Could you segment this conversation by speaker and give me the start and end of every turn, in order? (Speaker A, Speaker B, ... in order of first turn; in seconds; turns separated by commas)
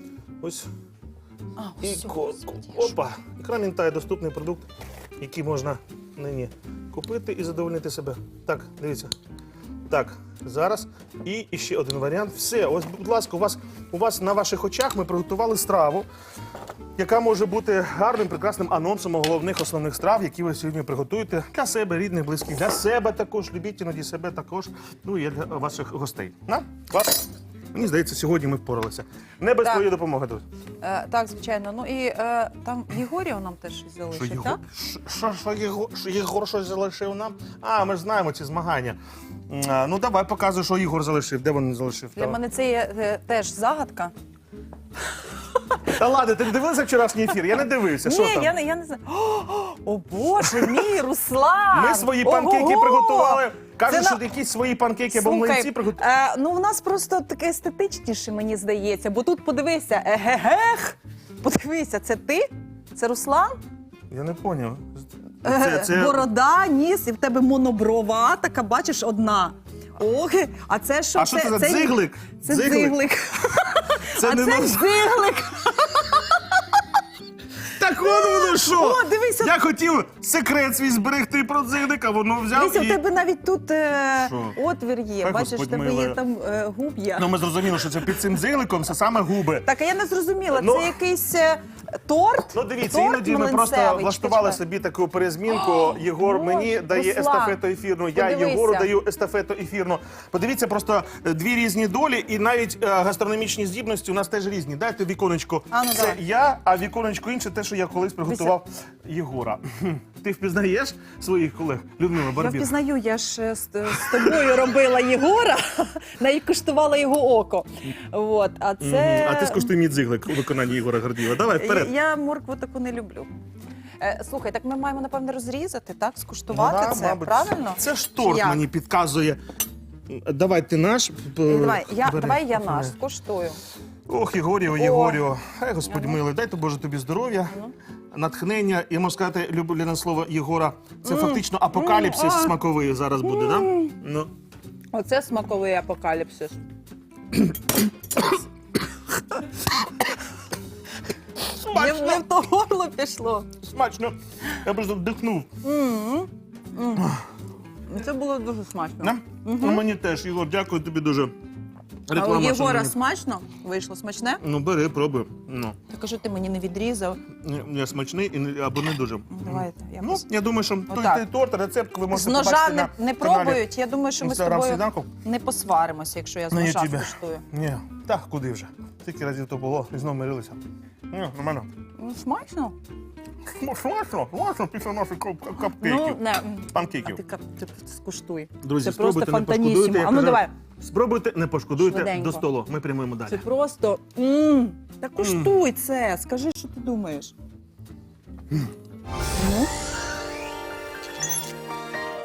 Speaker A: 0.4-0.7, Speaker B: 1.6-2.9, Speaker A: 1.8-4.7, Speaker A: 5.2-9.1, Speaker A: 9.9-16.1, Speaker A: 17.0-30.4, Speaker B: 29.6-29.9, Speaker B: 30.8-34.6, Speaker A: 34.1-39.0, Speaker A: 39.5-42.4, Speaker B: 42.1-44.1, Speaker A: 45.9-48.5, Speaker B: 48.0-54.2, Speaker A: 50.4-50.8, Speaker A: 51.7-56.0, Speaker B: 55.1-63.6, Speaker A: 64.1-66.2, Speaker B: 65.4-76.8, Speaker A: 71.1-73.0, Speaker A: 74.1-75.3, Speaker A: 77.7-83.0, Speaker B: 78.0-79.5, Speaker B: 82.5-87.3, Speaker A: 84.2-84.6, Speaker A: 85.2-86.2, Speaker A: 87.2-89.7, Speaker B: 89.6-94.6, Speaker A: 90.5-90.9, Speaker A: 92.5-112.7, Speaker B: 95.5-97.6, Speaker B: 98.1-98.9, Speaker B: 105.7-106.2, Speaker B: 108.2-108.5, Speaker B: 112.3-119.7, Speaker A: 114.0-114.6, Speaker A: 118.8-121.9, Speaker B: 121.5-123.3, Speaker B: 124.0-128.6, Speaker A: 126.5-129.4, Speaker A: 130.1-132.9, Speaker B: 131.4-133.6, Speaker A: 134.1-137.6, Speaker B: 134.7-135.2, Speaker B: 135.8-136.2, Speaker A: 138.1-144.3, Speaker B: 141.0-142.6, Speaker B: 143.2-143.9, Speaker B: 144.9-146.6, Speaker A: 151.6-152.2, Speaker B: 151.6-153.5, Speaker A: 153.6-155.5, Speaker B: 155.6-157.2, Speaker B: 157.9-159.8, Speaker A: 159.0-161.3, Speaker A: 162.1-162.9, Speaker B: 162.1-164.4, Speaker A: 164.4-165.8, Speaker B: 165.9-167.2, Speaker A: 167.4-173.7, Speaker B: 169.3-170.2, Speaker B: 170.9-171.2, Speaker B: 172.1-177.4, Speaker A: 174.2-175.1, Speaker A: 176.5-181.7, Speaker B: 182.0-182.8, Speaker A: 183.5-187.2, Speaker B: 185.7-190.5, Speaker A: 188.6-193.4, Speaker B: 191.8-192.4, Speaker B: 193.3-197.3, Speaker A: 195.2-195.6, Speaker B: 199.3-199.7